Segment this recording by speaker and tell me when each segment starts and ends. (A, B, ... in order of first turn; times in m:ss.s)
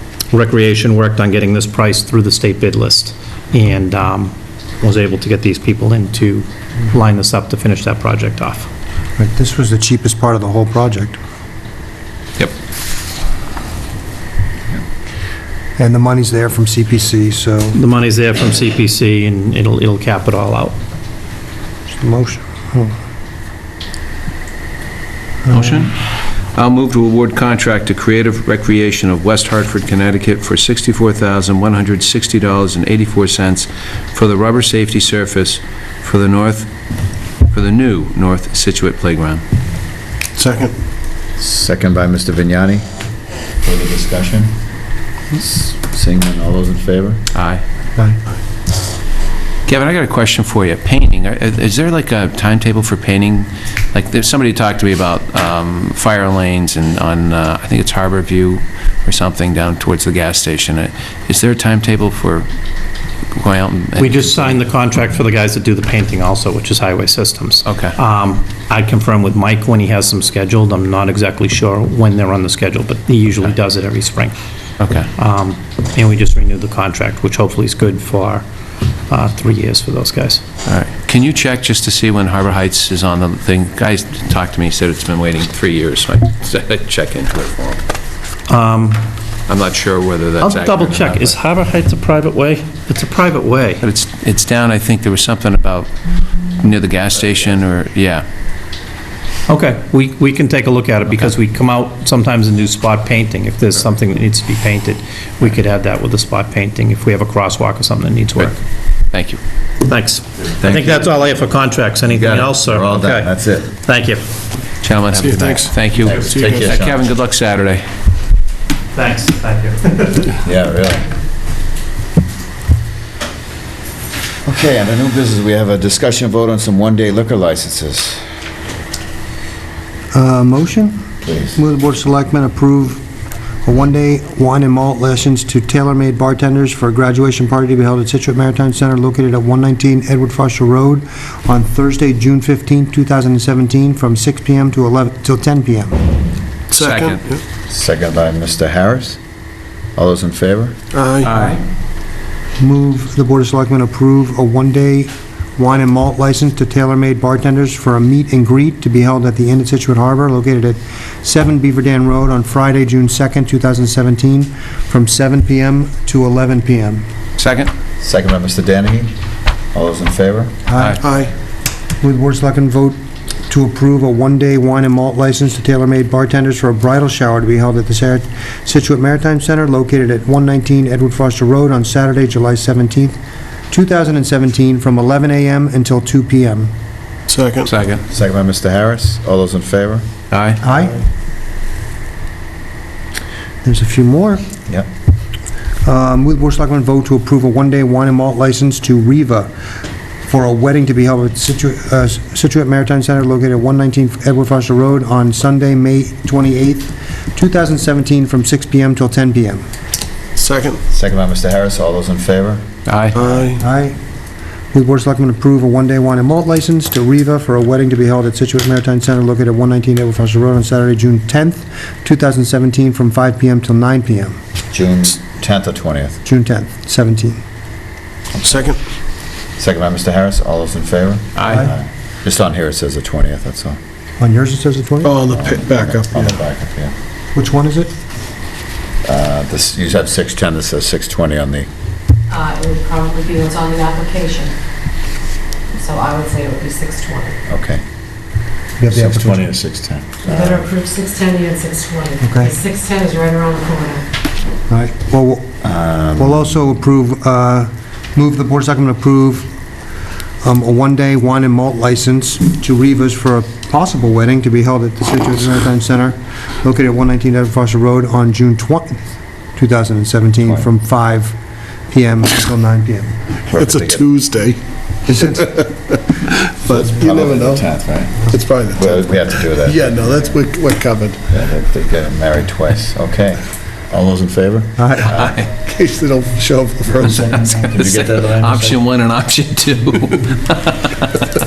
0:00.3-0:08.7 A
0:09.2-0:11.2 B
0:15.8-0:17.8 B
0:17.7-0:20.8 A
0:21.9-0:22.9 B
0:25.5-0:25.8 B
0:25.5-0:26.0 C
0:26.5-0:36.7 C
0:37.5-0:39.4 C
0:40.4-0:40.7 D
0:41.4-0:42.8 E
0:43.6-0:44.5 E
0:45.3-0:47.2 E
0:47.3-0:47.6 C
0:49.7-1:02.5 C
1:03.4-1:04.6 C
1:04.0-1:14.3 A
1:07.6-1:08.0 C
1:14.8-1:15.1 C
1:15.1-1:18.4 A
1:19.1-1:20.4 A
1:20.6-1:27.8 C
1:28.5-1:29.0 A
1:29.5-1:31.4 C
1:30.4-1:33.8 A
1:33.8-1:35.9 C
1:36.6-1:38.2 C
1:39.5-1:48.6 A
1:49.1-1:49.4 C
1:49.8-1:54.2 A
1:50.6-1:51.2 E
1:52.0-1:53.7 E
1:54.8-1:57.8 C
1:55.2-1:56.7 D
1:56.0-1:57.0 E
1:58.9-2:00.4 A
2:00.4-2:01.1 E
2:04.4-2:08.2 E
2:10.1-2:11.0 B
2:11.2-2:11.6 E
2:11.6-2:13.0 B
2:13.6-2:26.0 B
2:26.7-2:27.2 C
2:26.7-2:27.4 D
2:27.7-2:29.2 E
2:30.0-2:30.8 E
2:30.9-2:31.3 D
2:31.2-2:31.6 C
2:32.6-2:47.0 B
2:47.4-2:47.7 C
2:48.0-2:49.1 E
2:49.7-2:50.6 E
2:50.7-2:51.0 B
2:51.0-2:51.3 D
2:52.0-2:53.0 B
2:53.5-3:03.2 B
3:03.7-3:06.7 B
3:07.3-3:07.7 D
3:07.7-3:08.0 C
3:08.1-3:10.0 E
3:10.3-3:10.6 C
3:10.6-3:11.0 B
3:13.6-3:14.4 B
3:15.8-3:19.5 B
3:20.2-3:29.6 B
3:30.4-3:30.8 D
3:30.9-3:32.6 E
3:32.8-3:33.2 C
3:33.1-3:33.6 D
3:33.6-3:34.0 B
3:34.7-3:44.4 B
3:44.7-3:46.2 E
3:46.2-3:47.4 B
3:48.3-3:48.8 E
3:48.4-3:48.8 D
3:49.6-3:53.8 E
3:51.4-3:51.7 C
3:51.4-3:51.7 B
3:54.2-3:55.2 B
3:55.0-3:56.4 D
3:55.2-3:56.9 E
3:57.3-3:57.9 B
3:59.0-4:01.7 E
4:02.3-4:04.5 F
4:05.7-4:07.4 F
4:07.5-4:07.8 E
4:08.8-4:09.5 B
4:08.9-4:10.7 E
4:10.2-4:14.0 F
4:12.2-4:12.6 B
4:14.7-4:15.5 B
4:15.6-4:16.5 E
4:16.2-4:19.5 B
4:20.4-4:29.0 B
4:29.6-4:31.4 B
4:31.9-4:33.1 B
4:33.5-4:34.1 E
4:33.5-4:34.6 D
4:35.1-4:35.6 B
4:35.4-4:37.6 D
4:36.7-4:40.4 E
4:38.2-4:41.2 D
4:41.3-4:45.4 E
4:44.8-4:45.1 B
4:45.0-4:45.5 C
4:45.6-4:47.7 D
4:47.1-4:51.1 C
4:47.6-4:48.8 E